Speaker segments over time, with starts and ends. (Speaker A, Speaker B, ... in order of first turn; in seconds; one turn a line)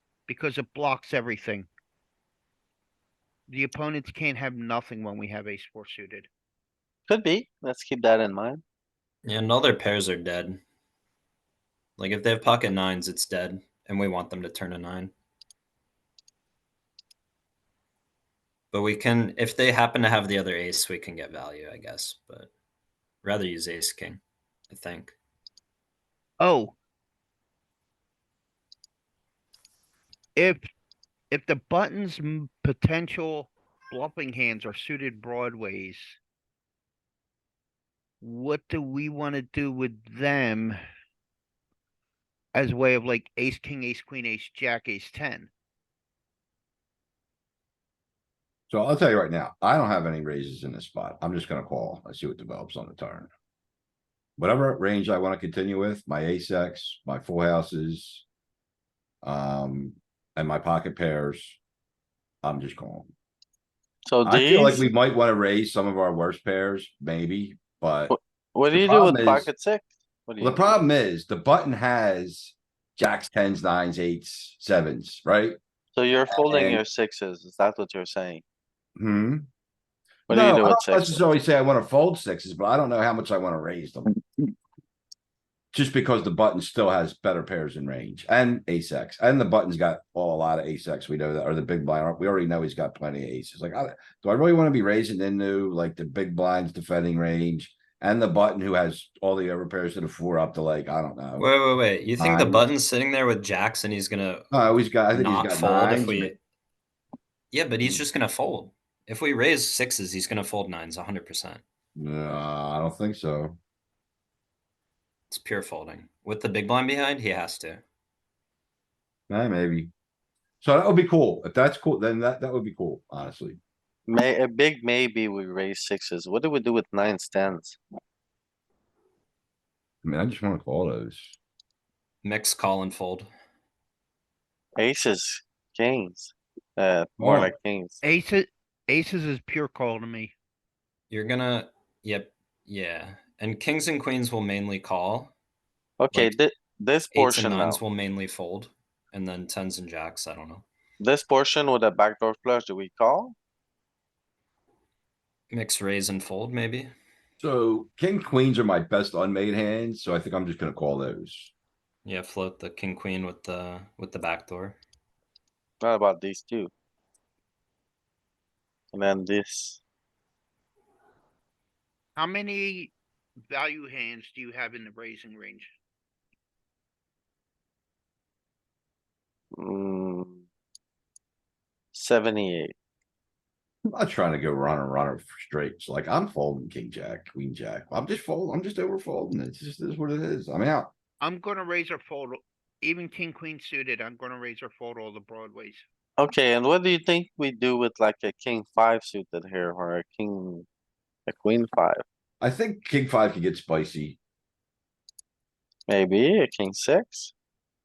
Speaker A: 0.3-1.7
Speaker A: 3.5-6.3
Speaker B: 7.1-8.6
Speaker C: 9.2-10.6
Speaker C: 12.0-15.1
Speaker C: 18.7-22.5
Speaker C: 23.2-25.1
Speaker A: 26.4-26.8
Speaker A: 30.4-30.6
Speaker A: 31.3-36.2
Speaker A: 38.2-40.8
Speaker A: 42.5-45.5
Speaker D: 48.7-53.3
Speaker D: 54.4-58.2
Speaker D: 59.2-61.6
Speaker D: 62.4-63.1
Speaker B: 64.1-64.9
Speaker D: 64.2-68.1
Speaker B: 68.1-70.8
Speaker D: 68.7-69.5
Speaker D: 70.4-75.6
Speaker B: 75.9-78.4
Speaker D: 76.5-76.8
Speaker D: 79.0-79.5
Speaker B: 80.3-81.3
Speaker D: 80.3-84.1
Speaker D: 85.7-101.5
Speaker C: 101.4-106.4
Speaker D: 102.2-102.7
Speaker D: 104.5-106.3
Speaker C: 107.5-111.6
Speaker D: 112.0-113.6
Speaker C: 115.3-117.8
Speaker D: 119.3-119.9
Speaker D: 120.6-123.6
Speaker B: 124.1-127.8
Speaker D: 130.0-131.3
Speaker C: 132.2-133.3
Speaker B: 134.8-138.0
Speaker D: 137.2-137.5
Speaker A: 138.0-140.3
Speaker C: 141.1-145.3
Speaker B: 146.0-147.8
Speaker C: 147.1-150.6
Speaker B: 151.0-153.3
Speaker C: 155.5-156.9
Speaker D: 157.4-161.5
Speaker C: 162.0-164.8
Speaker B: 165.8-166.7
Speaker B: 168.9-169.8
Speaker A: 172.2-172.9
Speaker A: 173.5-175.7
Speaker B: 179.6-180.4
Speaker B: 181.9-182.7
Speaker D: 183.9-190.9
Speaker A: 191.2-195.8
Speaker B: 196.2-200.7
Speaker B: 201.3-202.0
Speaker D: 202.4-204.2
Speaker B: 205.9-207.3